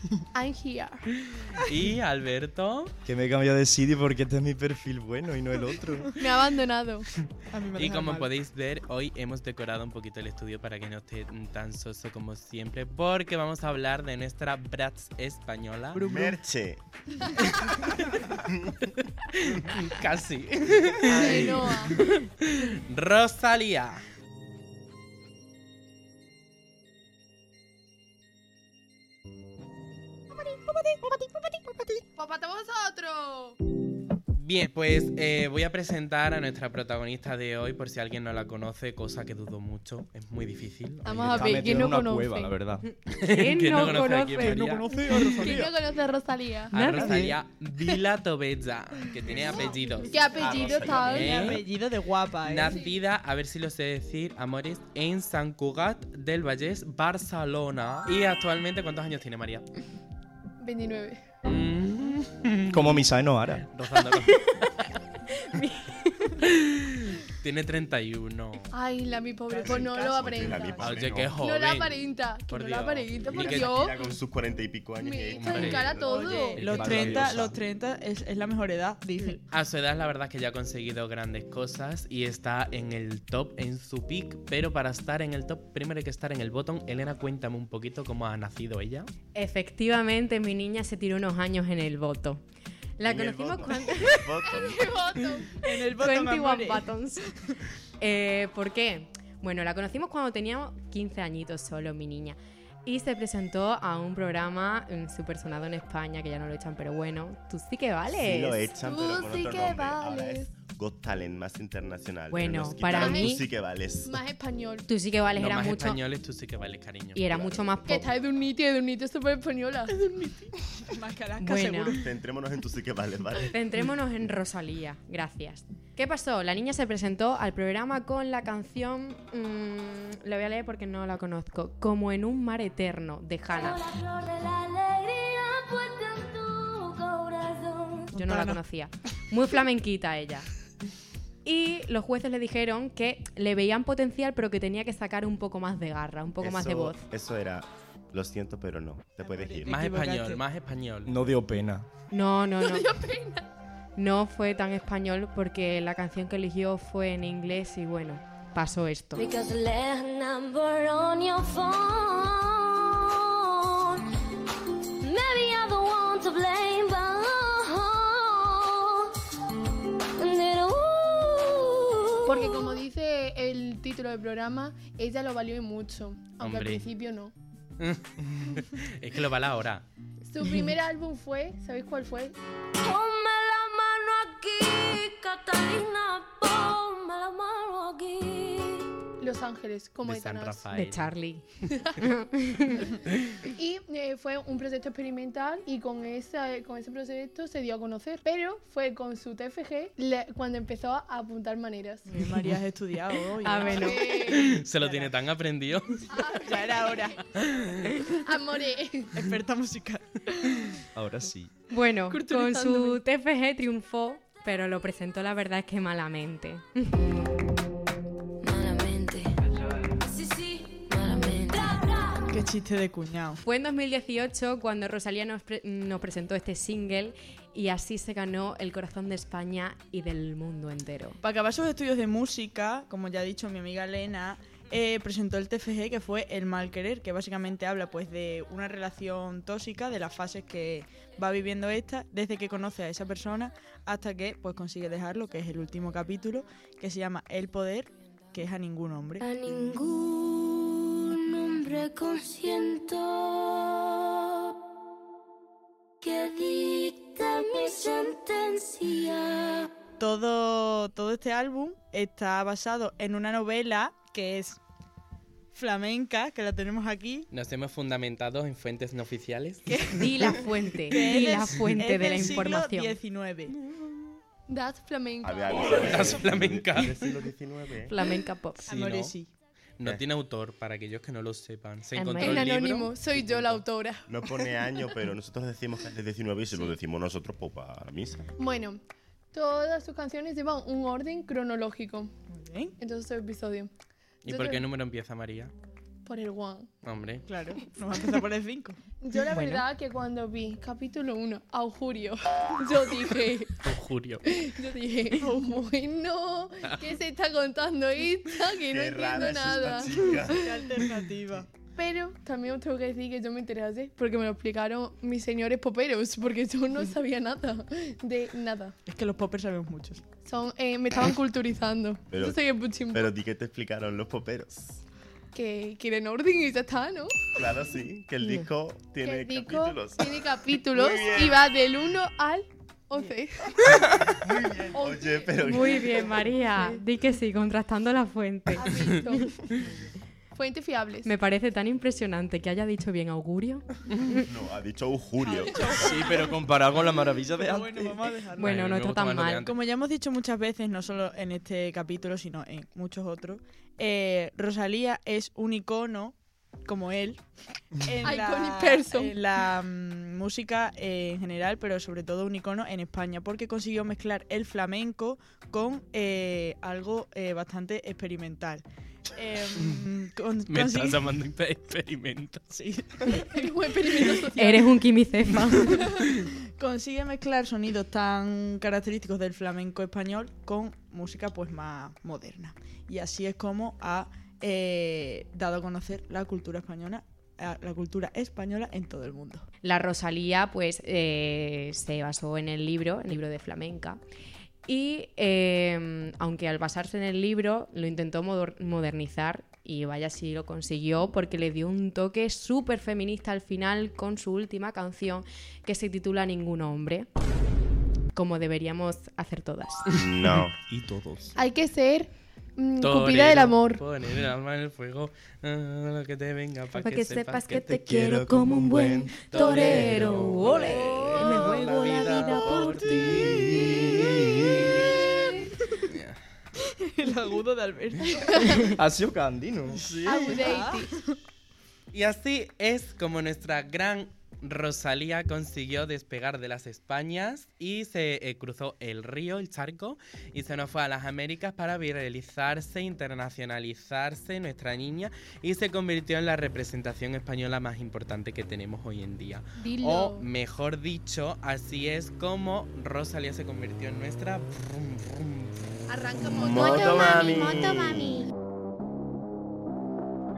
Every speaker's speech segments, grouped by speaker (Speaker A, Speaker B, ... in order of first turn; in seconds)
Speaker A: 0.3-1.1, 6.2-7.1, 21.1-21.9, 32.2-33.6, 41.0-42.5, 45.0-46.8, 50.1-51.3, 60.6-61.2, 68.7-70.7, 71.4-74.0, 75.0-76.6, 94.4-95.7, 108.8-110.5, 113.0-113.4, 114.0-114.9, 117.9-120.5, 152.6-153.5, 172.3-177.3, 180.3-182.4, 189.2-190.7, 193.6-202.1, 203.7-204.6, 206.1-207.1, 208.2-209.1, 212.0-213.0, 274.5-276.2, 282.2-284.8, 288.4-288.8, 289.3-292.1, 292.8-293.7, 294.3-294.6, 296.0-296.7, 299.0-303.6, 304.2-310.5, 311.8-318.8, 320.2-323.1, 325.3-327.1, 329.0-333.5, 334.7-336.1, 338.5-339.3, 340.3-341.1, 358.0-359.1, 373.2-374.6, 411.4-413.8, 428.3-428.5, 430.0-430.9, 449.6-450.3, 455.9-457.2
Speaker B: 1.5-2.9, 7.7-16.0, 17.4-18.2, 18.8-24.0, 34.3-41.8, 43.1-44.9, 46.7-50.3, 50.9-51.7, 52.4-59.7, 61.5-63.0, 63.7-64.8, 66.6-68.7, 70.8-72.0, 72.5-73.7, 75.4-75.9, 76.5-77.6, 79.5-89.1, 115.3-117.2, 149.7-151.2, 176.4-176.9, 177.8-179.9, 190.0-191.1, 204.1-206.2, 207.4-208.0, 267.3-269.9, 273.7-274.0, 275.7-277.1, 278.6-279.1, 279.8-282.9, 294.2-295.5, 296.8-297.2, 303.6-304.3, 348.4-349.6, 370.5-372.5, 412.8-417.8, 419.2-424.8, 425.8-426.2, 431.9-455.8
Speaker C: 3.0-6.1, 41.3-42.9, 44.5-45.7, 46.9-47.4, 62.7-63.7, 76.9-77.5, 151.1-151.9, 210.9-211.6, 345.7-348.0, 410.7-411.4, 417.7-420.3, 422.7-424.8, 428.6-430.5
Speaker D: 7.5-8.3, 15.9-16.4, 45.4-45.7, 49.4-49.8, 50.4-52.8, 69.5-71.0, 76.0-79.4, 95.6-97.5, 120.8-122.1, 138.1-138.6, 149.2-150.4, 202.1-204.0, 204.6-205.3, 206.4-207.2, 209.1-210.7, 222.3-223.4, 231.2-249.2, 260.0-264.6, 265.5-267.3, 269.7-273.5, 278.6-279.3, 292.3-292.8, 297.3-298.8, 305.2-305.6, 310.2-311.5, 318.9-320.0, 339.5-339.9, 345.2-346.3, 347.3-348.7, 349.4-357.2, 357.8-371.0, 372.5-374.6, 376.6-389.5, 420.6-422.0, 426.6-428.7, 429.9-431.2
Speaker E: 16.0-16.8, 21.1-21.6, 50.4-51.5, 69.6-71.4, 73.2-77.5, 93.0-95.3, 108.1-114.2, 117.2-118.0, 122.0-123.5, 146.4-149.9, 275.2-277.9, 283.1-288.3, 308.7-310.6, 322.1-322.4, 322.9-324.8, 327.4-331.5, 333.7-336.3, 344.3-346.0, 409.9-410.6, 456.3-458.2
Speaker F: 43.2-44.7, 46.8-47.1, 65.5-66.4, 89.3-92.4, 93.0-94.3, 95.9-97.3, 98.0-108.7, 112.3-113.4, 114.9-116.0, 117.1-118.0, 121.4-122.0, 123.5-133.8, 138.2-140.5, 141.4-147.0, 152.1-152.8, 154.0-159.2, 190.8-191.4, 192.0-192.8, 203.4-204.1, 211.7-217.0, 223.4-231.1, 269.9-272.9, 277.9-278.6, 281.9-282.4, 335.5-339.2, 341.0-344.3, 348.4-349.4, 374.4-375.8, 389.6-394.0, 394.6-407.1, 408.1-409.9, 416.8-423.7, 456.9-458.3
Speaker G: 133.5-138.2, 159.1-164.1, 165.0-169.1, 170.2-172.8, 182.8-188.9, 218.4-219.3, 220.1-222.2, 249.2-254.1, 256.0-259.7